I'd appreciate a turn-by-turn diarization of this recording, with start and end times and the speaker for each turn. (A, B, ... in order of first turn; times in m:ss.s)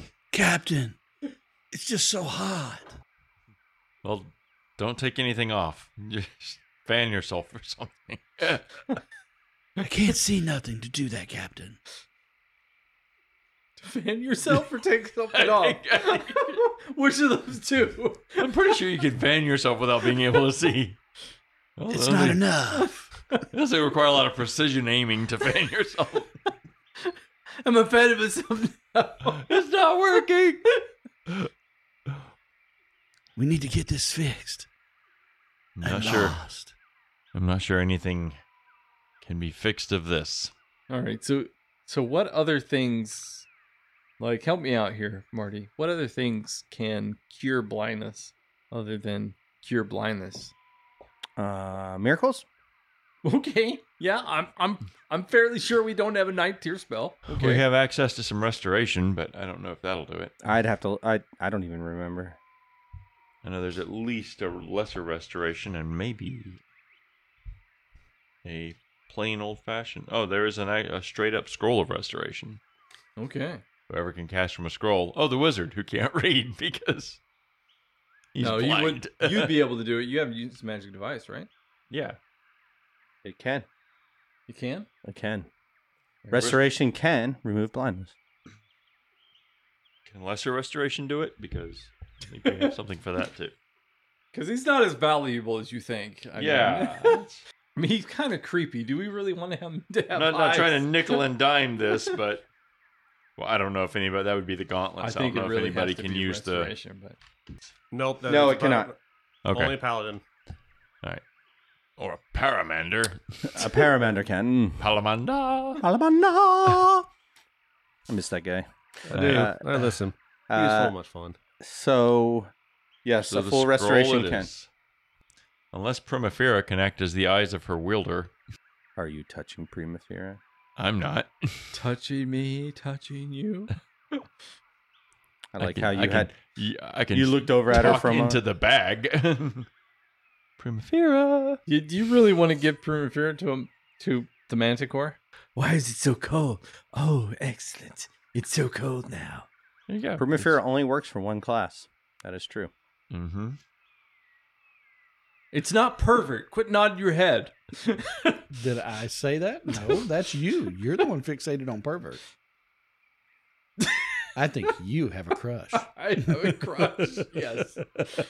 0:00.3-0:01.0 A
0:01.7-0:02.9 A
0:04.0-0:08.9 B
0:09.8-0:11.8 A
0:13.8-0:18.5 C
0:15.3-0:16.6 B
0:18.4-0:21.0 B
0:21.8-0:22.4 B
0:21.9-0:23.2 A
0:22.7-0:23.2 C
0:23.5-0:26.3 B
0:27.6-0:29.4 C
0:29.5-0:30.7 B
0:33.4-0:34.7 A
0:35.8-0:36.7 B
0:35.8-0:36.7 A
0:37.3-0:38.4 B
0:39.2-0:40.5 B
0:40.9-0:43.5 C
0:44.2-0:50.5 C
0:51.4-0:52.4 D
0:53.2-0:57.6 C
0:57.3-1:00.4 B
1:00.4-1:02.4 D
1:03.4-1:06.6 B
1:08.4-1:12.6 B
1:13.2-1:13.6 C
1:13.9-1:17.2 B
1:18.3-1:19.5 B
1:18.4-1:21.5 C
1:21.9-1:22.2 B
1:23.2-1:23.7 D
1:24.5-1:24.9 C
1:25.0-1:25.5 D
1:26.3-1:28.1 D
1:30.0-1:33.5 B
1:34.3-1:41.2 C
1:36.4-1:37.4 B
1:40.1-1:42.5 B
1:43.4-1:46.7 B
1:45.0-1:47.2 C
1:47.9-1:49.0 E
1:48.2-1:48.9 D
1:49.4-1:49.8 B
1:49.5-1:50.2 E
1:52.0-1:53.7 B
1:53.4-1:54.9 D
1:54.8-1:55.8 B
1:55.8-1:57.1 D
1:58.1-1:59.6 D
1:59.0-2:01.4 E
1:59.1-1:59.9 B
2:00.5-2:00.9 D
2:01.6-2:02.5 D
2:03.0-2:04.5 D
2:03.2-2:04.7 B
2:05.7-2:08.3 B
2:09.0-2:10.4 D
2:10.8-2:11.8 B
2:11.7-2:14.2 C
2:15.5-2:16.3 D
2:15.6-2:19.7 B
2:17.1-2:18.4 D
2:20.6-2:21.6 B
2:21.6-2:29.5 C
2:29.9-2:30.6 B
2:30.2-2:32.7 D
2:33.1-2:33.6 B
2:35.5-2:38.4 C
2:38.5-2:42.2 A
2:44.4-2:47.1 A
2:45.7-2:48.0 C